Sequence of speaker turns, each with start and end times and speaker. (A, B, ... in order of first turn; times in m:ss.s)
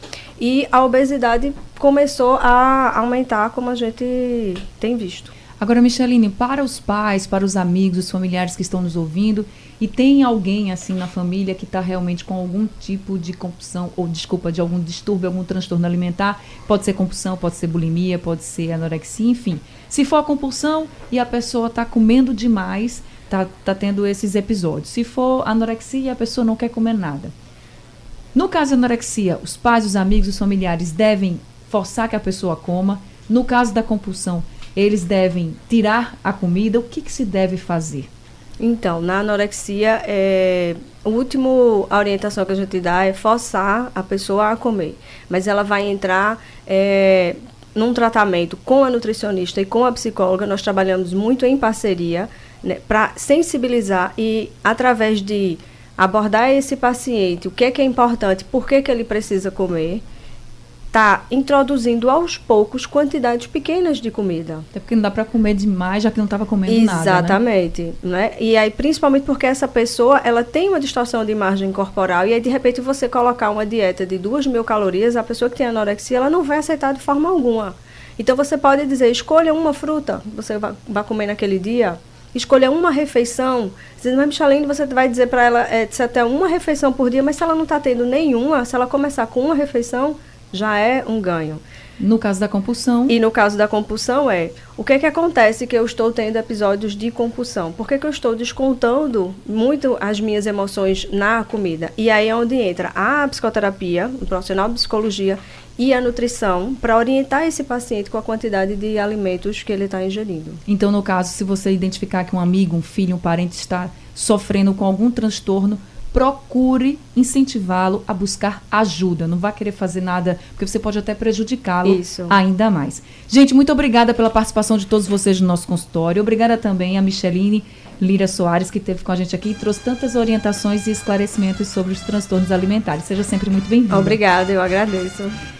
0:00.4-0:05.3 A
0:05.6-0:27.3 B
0:28.4-0:38.1 B
0:38.6-1:00.0 A
1:00.9-1:04.7 A
1:04.7-1:07.4 B
1:06.7-1:31.6 A
1:32.0-1:33.2 B
1:33.1-1:50.6 A
1:50.7-2:14.2 B
2:01.8-2:02.4 A
2:13.9-2:15.4 A